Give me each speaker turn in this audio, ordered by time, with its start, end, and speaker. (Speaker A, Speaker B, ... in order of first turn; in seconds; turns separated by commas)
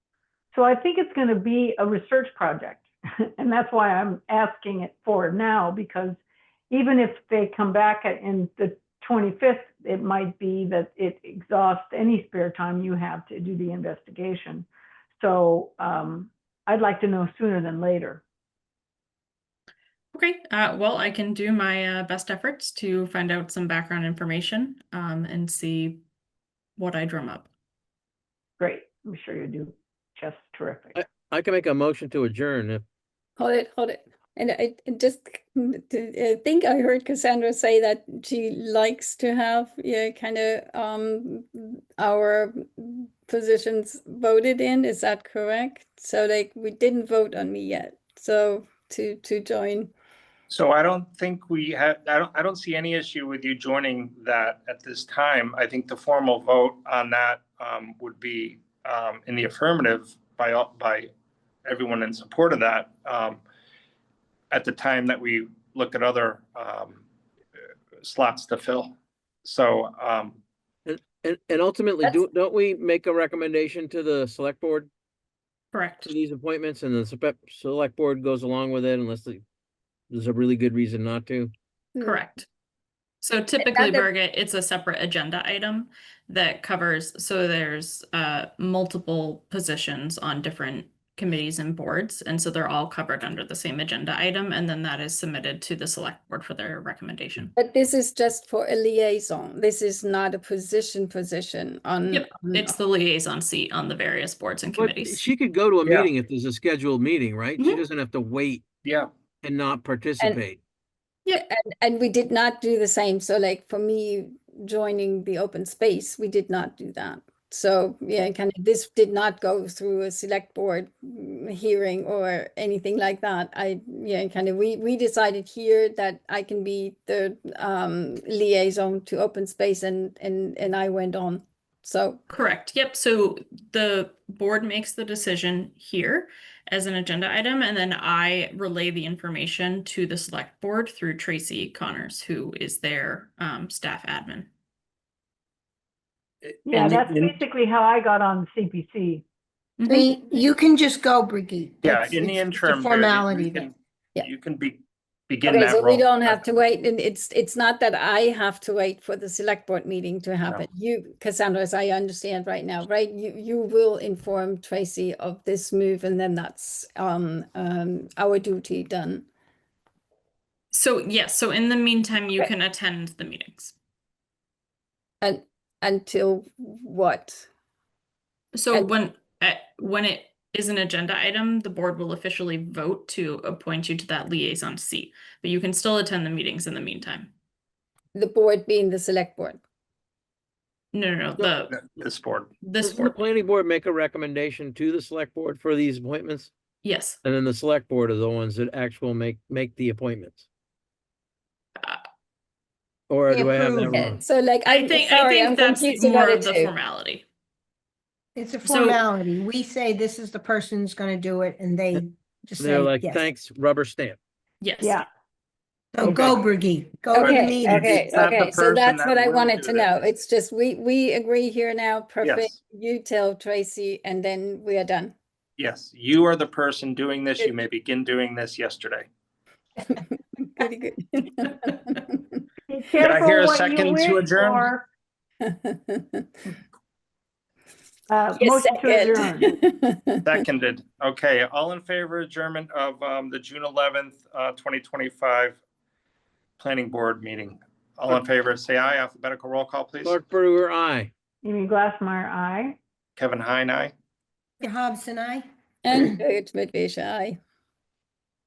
Speaker A: 0.5-18.2, Speaker B: 20.1-26.0, Speaker B: 26.8-27.5, Speaker A: 28.6-31.0, Speaker C: 30.9-32.8, Speaker D: 33.4-49.9, Speaker E: 50.5-61.1, Speaker E: 61.6-63.4, Speaker E: 64.5-67.0, Speaker E: 68.0-68.9, Speaker E: 69.5-70.4, Speaker C: 70.9-74.9, Speaker B: 75.7-76.2, Speaker C: 76.0-79.4, Speaker C: 80.1-81.5, Speaker D: 82.0-82.2, Speaker B: 82.0-82.5, Speaker B: 83.2-97.5, Speaker D: 83.6-84.1, Speaker D: 97.6-102.8, Speaker B: 102.1-105.2, Speaker C: 104.8-108.6, Speaker C: 109.4-110.6, Speaker D: 111.3-132.2, Speaker B: 132.3-144.5, Speaker E: 146.4-147.3, Speaker A: 146.7-149.2, Speaker B: 149.8-150.1, Speaker F: 149.9-153.7, Speaker E: 151.8-153.7, Speaker E: 154.2-156.4, Speaker D: 155.5-169.3, Speaker B: 170.7-173.8, Speaker D: 175.2-177.5, Speaker B: 178.5-187.3, Speaker D: 188.1-189.6, Speaker B: 190.9-191.8, Speaker E: 191.4-192.5, Speaker B: 192.6-193.1, Speaker C: 192.8-196.5, Speaker B: 196.8-197.2, Speaker C: 197.2-200.4, Speaker C: 203.1-204.2, Speaker F: 203.3-204.2, Speaker D: 203.9-206.7, Speaker B: 204.7-207.3, Speaker F: 208.4-213.2, Speaker B: 208.7-209.0, Speaker C: 212.6-214.2, Speaker B: 214.6-215.0, Speaker A: 214.8-215.1, Speaker F: 215.9-217.9, Speaker A: 216.0-216.3, Speaker D: 217.1-225.1, Speaker E: 217.2-219.9, Speaker E: 222.2-222.5, Speaker E: 225.6-229.1, Speaker D: 230.5-232.2, Speaker A: 232.7-234.8, Speaker E: 233.0-234.7, Speaker D: 235.4-236.3, Speaker A: 238.1-239.6, Speaker D: 238.4-240.3, Speaker E: 240.2-245.6, Speaker E: 246.6-250.2, Speaker C: 250.0-251.1, Speaker A: 251.4-252.8, Speaker E: 253.2-253.9, Speaker F: 254.6-256.1, Speaker D: 255.8-257.4